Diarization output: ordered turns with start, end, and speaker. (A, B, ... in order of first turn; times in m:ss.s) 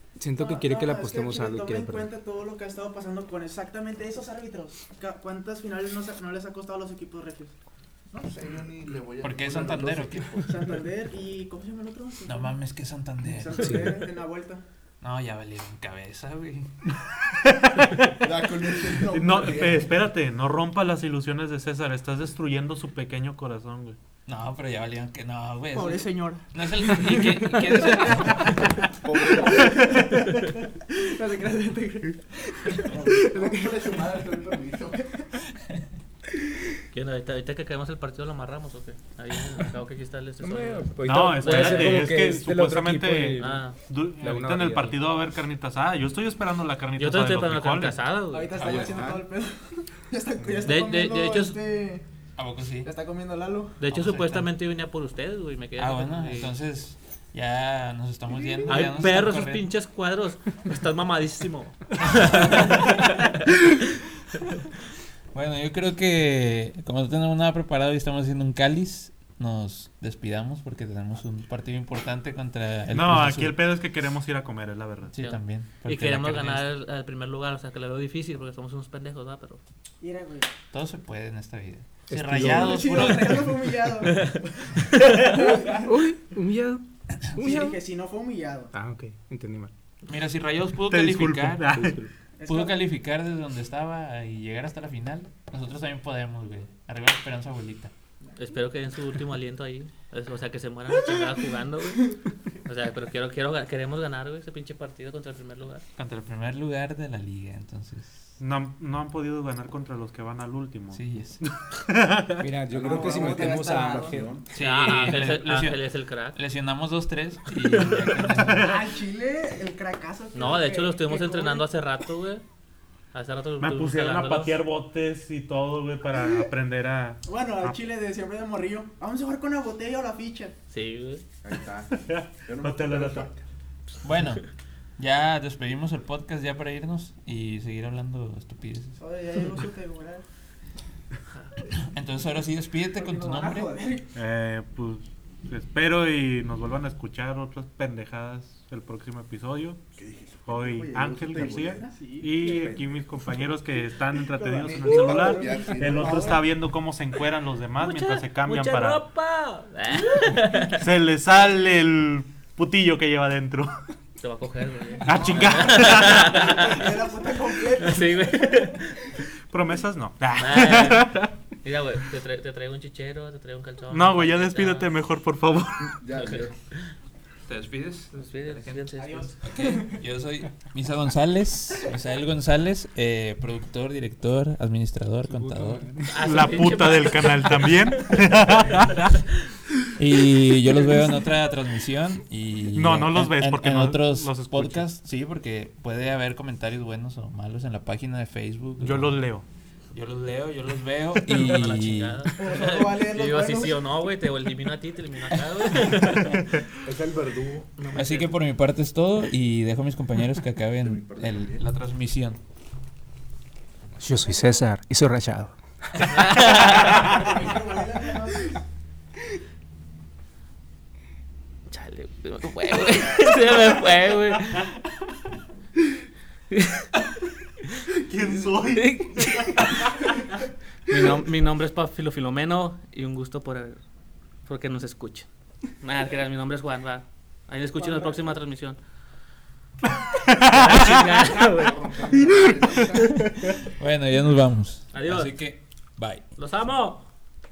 0:00.2-0:02.1 A
0:00.3-0:07.6 B
0:08.1-0:10.9 C
0:09.2-0:10.4 D
0:10.5-0:12.5 B
0:12.2-0:14.0 D
0:13.2-0:14.6 B
0:13.6-0:14.0 A
0:15.0-0:16.9 D
0:17.4-0:18.2 E
0:18.2-0:19.9 C
0:19.1-0:24.0 E
0:24.2-0:28.8 D
0:25.7-0:34.1 B
0:29.0-0:30.0 C
0:32.8-0:35.1 C
0:36.9-0:42.1 F
0:40.4-0:43.6 A
0:41.0-0:48.0 E
0:43.4-0:43.8 F
0:44.2-0:45.0 A
0:47.0-0:49.0 F
0:48.3-0:52.0 B
0:48.5-0:49.3 C
0:50.4-0:50.7 E
0:50.6-0:51.6 F
0:52.4-0:52.9 D
0:52.8-0:53.8 B
0:53.8-0:56.5 F
0:53.9-0:54.5 D
0:55.8-0:59.7 D
0:58.4-0:59.0 B
0:58.7-1:03.5 F
1:02.0-1:02.7 D
1:05.3-1:13.6 D
1:12.9-1:15.1 E
1:15.1-1:16.6 D
1:15.2-1:19.6 F
1:20.0-1:20.5 B
1:20.7-1:23.9 D
1:22.1-1:23.0 A
1:22.4-1:25.9 B
1:24.2-1:25.2 F
1:25.7-1:27.8 A
1:27.4-1:28.7 B
1:28.7-1:29.7 A
1:30.1-1:31.7 D
1:30.9-1:32.0 E
1:31.7-1:32.1 A
1:32.4-1:32.8 B
1:32.4-1:37.9 D
1:38.4-1:45.8 F
1:46.0-1:48.3 D
1:48.4-1:52.5 E
1:50.9-1:51.4 D
1:52.4-1:54.4 A
1:52.7-1:54.5 C
1:52.8-1:54.2 B
1:54.5-1:58.8 D
1:54.6-1:56.4 F
1:57.5-1:58.2 F
1:58.4-1:58.8 E
1:58.6-2:01.6 B
2:00.3-2:02.4 F
2:03.1-2:04.6 F
2:03.6-2:07.8 E
2:07.2-2:10.6 B
2:10.7-2:11.2 F
2:11.4-2:13.4 C
2:11.9-2:13.3 E
2:14.0-2:14.5 D
2:15.0-2:19.0 D
2:19.0-2:20.2 B
2:21.8-2:23.8 D
2:23.0-2:24.1 B
2:24.1-2:29.8 E
2:30.0-2:32.9 C
2:30.5-2:39.0 E
2:31.0-2:32.7 B
2:34.3-2:36.5 C
2:34.4-2:36.4 B
2:37.8-2:40.8 F
2:40.7-2:43.8 E
2:44.2-2:47.0 F
2:45.0-2:48.8 B
2:45.0-2:46.5 E
2:47.7-2:49.2 F
2:49.5-2:51.3 E
2:50.4-2:54.9 F
2:53.9-2:55.9 E
2:55.8-2:56.6 C
2:57.5-3:05.8 D
2:58.1-2:59.3 F
2:58.9-3:00.0 B
3:05.3-3:06.7 A
3:06.1-3:08.8 F
3:06.2-3:09.2 E
3:09.9-3:19.2 D
3:12.7-3:14.8 E
3:18.8-3:19.4 E
3:19.9-3:22.3 D
3:21.2-3:26.4 F
3:22.4-3:23.8 B
3:26.8-3:27.7 C
3:27.8-3:28.3 F
3:27.9-3:32.4 D
3:30.8-3:31.7 C
3:34.0-3:36.1 A
3:36.1-3:37.2 F
3:36.7-3:38.6 B
3:41.7-3:44.6 F
3:46.5-3:46.9 F
3:47.9-3:49.8 E
3:48.7-3:50.1 F
3:50.9-3:53.8 F
3:54.4-3:55.3 F
3:55.8-3:58.8 F
4:00.2-4:01.0 E
4:00.4-4:01.8 F
4:01.4-4:03.3 C
4:02.7-4:03.2 F
4:03.6-4:06.2 D
4:04.9-4:05.3 F
4:06.4-4:07.0 F